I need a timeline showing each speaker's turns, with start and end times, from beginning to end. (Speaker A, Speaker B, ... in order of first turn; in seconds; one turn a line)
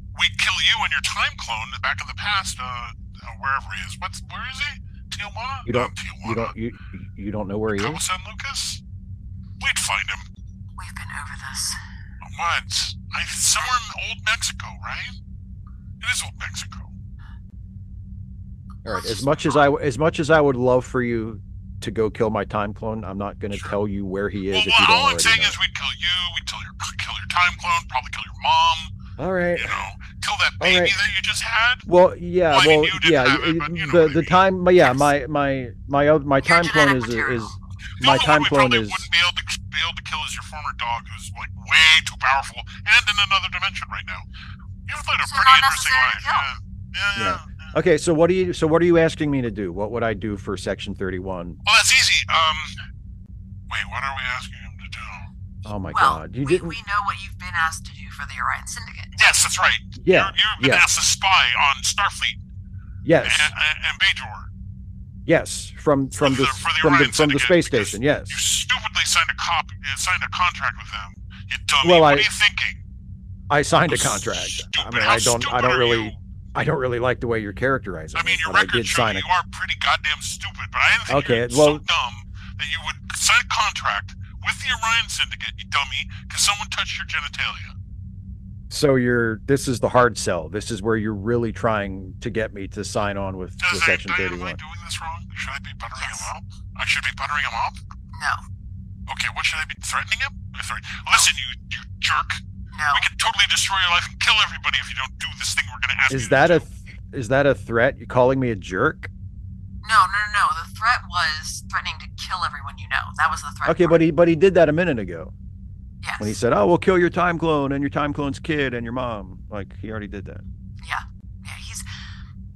Speaker A: 0.1-6.5
Speaker B: 5.7-8.0
Speaker A: 7.7-8.8
Speaker A: 9.6-10.3
Speaker C: 10.8-11.8
Speaker A: 12.2-15.2
Speaker A: 16.0-16.9
Speaker C: 18.9-19.7
Speaker B: 18.9-25.6
Speaker A: 24.5-28.9
Speaker B: 29.2-29.8
Speaker A: 29.6-31.9
Speaker B: 30.6-30.9
Speaker B: 31.9-39.1
Speaker A: 32.5-34.4
Speaker C: 36.4-37.6
Speaker A: 38.0-44.3
Speaker A: 44.9-47.7
Speaker C: 45.2-46.5
Speaker B: 47.1-51.6
Speaker A: 51.6-52.8
Speaker A: 53.7-55.3
Speaker B: 55.6-56.8
Speaker C: 55.9-59.1
Speaker A: 59.1-62.4
Speaker B: 60.0-60.9
Speaker B: 63.0-63.5
Speaker A: 63.2-64.5
Speaker B: 65.3-68.4
Speaker A: 66.2-72.8
Speaker B: 71.8-72.3
Speaker B: 73.5-79.3
Speaker A: 73.9-76.2
Speaker A: 78.1-87.8
Speaker B: 81.1-81.8
Speaker B: 88.7-94.6
Speaker A: 93.6-97.8
Speaker C: 96.0-96.3
Speaker C: 98.1-98.4
Speaker A: 99.1-102.4
Speaker C: 102.7-103.1
Speaker A: 102.9-106.7
Speaker B: 106.1-109.1
Speaker C: 109.8-114.0
Speaker B: 113.7-115.3
Speaker C: 116.0-116.4
Speaker B: 116.2-120.4
Speaker C: 120.8-121.9